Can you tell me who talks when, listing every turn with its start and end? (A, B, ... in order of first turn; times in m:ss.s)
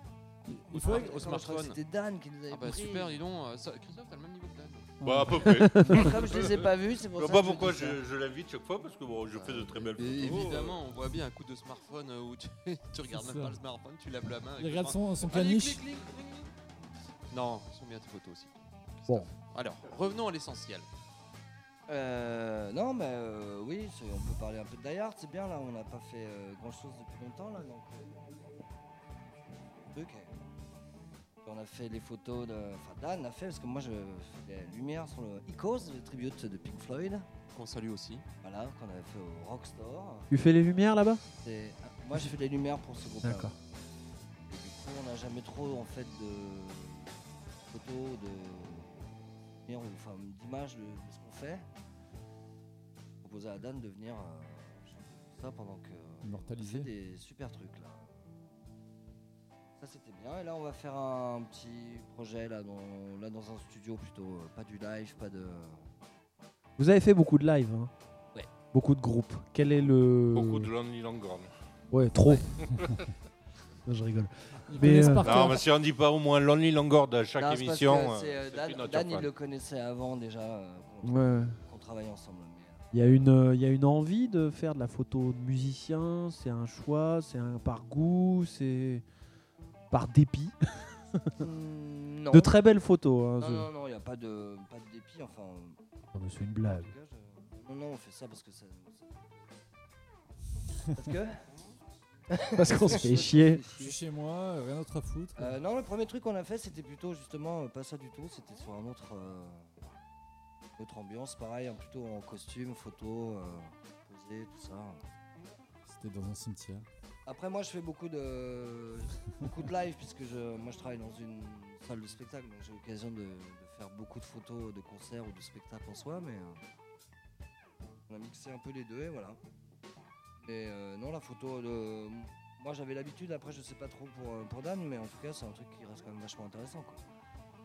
0:00.5-0:01.0 A
0:00.7-0:03.2 B
0:00.7-0:01.8 C
0:02.5-0:04.9 C
0:05.0-0:06.0 A
0:05.0-0:10.8 D
0:05.9-0:08.0 B
0:09.3-0:16.5 C
0:13.1-0:13.6 A
0:14.6-0:15.8 A
0:17.3-0:20.9 C
0:21.9-0:28.2 B
0:29.9-0:30.3 B
0:31.4-0:37.3 B
0:37.5-0:38.2 C
0:38.4-0:40.3 B
0:40.3-0:41.2 E
0:41.4-0:43.6 B
0:43.2-0:43.5 E
0:44.5-0:47.2 B
0:47.7-0:49.1 B
0:49.6-0:51.7 B
0:53.2-0:58.2 B
0:56.2-0:56.9 A
0:59.8-1:05.8 B
1:06.8-1:07.9 E
1:08.7-1:10.7 E
1:10.3-1:11.5 D
1:11.9-1:12.5 E
1:13.9-1:15.3 E
1:14.7-1:15.7 A
1:15.0-1:19.3 D
1:17.4-1:22.9 B
1:21.0-1:21.6 E
1:22.9-1:29.0 E
1:29.9-1:31.4 E
1:31.4-1:32.5 B
1:32.3-1:33.7 E
1:33.4-1:35.8 B
1:36.1-1:36.9 E
1:36.6-1:39.5 B
1:40.9-1:41.5 B
1:42.3-1:44.0 B
1:42.4-1:43.6 E
1:42.8-1:45.6 A
1:45.4-1:49.8 B
1:50.8-1:55.0 B
1:55.9-1:56.9 A
1:57.3-2:06.6 B
2:08.1-2:09.4 B
2:10.4-2:17.0 B